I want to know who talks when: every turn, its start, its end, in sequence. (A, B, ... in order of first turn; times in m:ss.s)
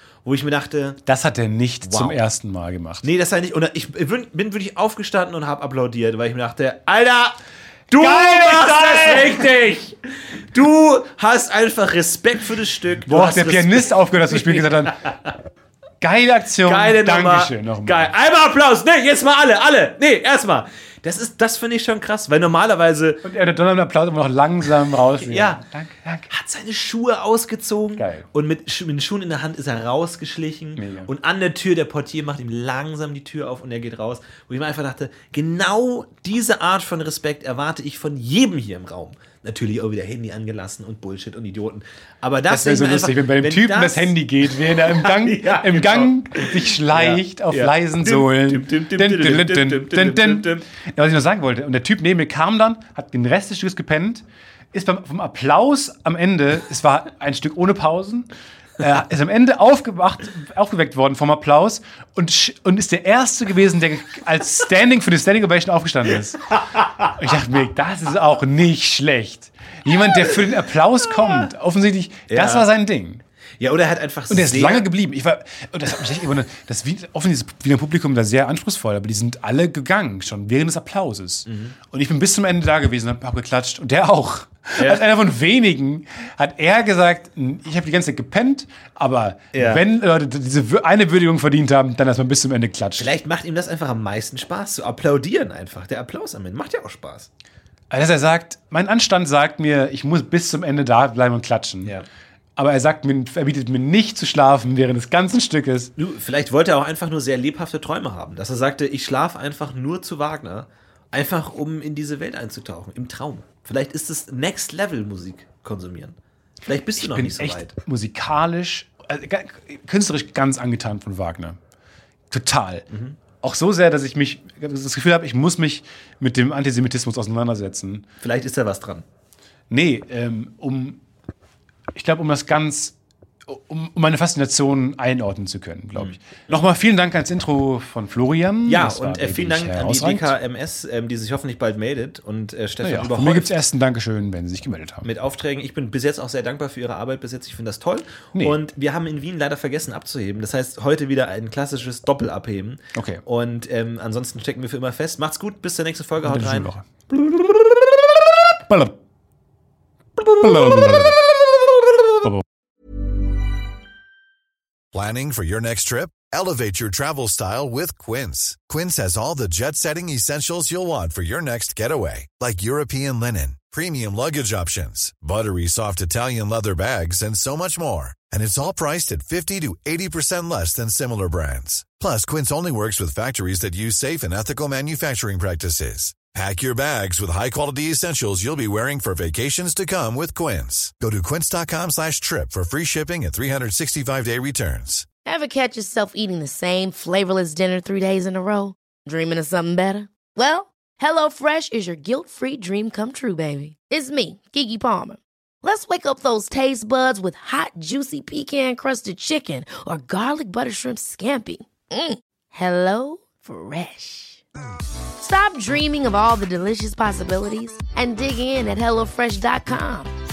0:00.2-0:01.0 A
0:01.1-0:03.0 B
0:01.8-0:02.2 A
0:03.0-0:15.3 A
0:08.0-0:09.5 B
0:13.1-0:15.1 B
0:16.0-0:18.1 B
0:16.6-0:23.3 A
0:23.2-0:26.3 B
0:25.2-0:25.6 A
0:26.3-0:50.7 A
0:28.0-0:28.3 B
0:30.8-0:31.1 B
0:42.5-1:06.5 B
1:06.6-1:07.1 A
1:07.0-1:13.2 B
1:12.3-1:12.7 A
1:13.6-1:14.9 A
1:14.3-1:33.1 B
1:21.5-1:21.8 A
1:24.8-1:25.0 A
1:29.5-1:29.8 A
1:33.0-1:37.3 A
1:37.9-1:41.9 B
1:42.6-1:45.9 B
1:46.0-1:57.8 A
1:57.0-2:01.6 B
2:02.3-2:02.9 B
2:02.9-2:03.2 A
2:03.4-2:08.0 B
2:08.2-2:09.1 A
2:09.7-2:11.0 B
2:11.9-2:20.4 B
2:16.0-2:16.6 A
2:18.7-2:23.6 A
2:22.8-2:25.1 B
2:25.0-2:37.6 A
2:28.3-2:28.6 B
2:33.0-2:33.2 B
2:36.2-2:36.9 B
2:38.7-2:39.0 B
2:40.4-2:41.2 B
2:40.6-2:41.0 A
2:44.9-3:15.1 C
3:15.2-3:34.4 D
3:35.2-3:40.1 D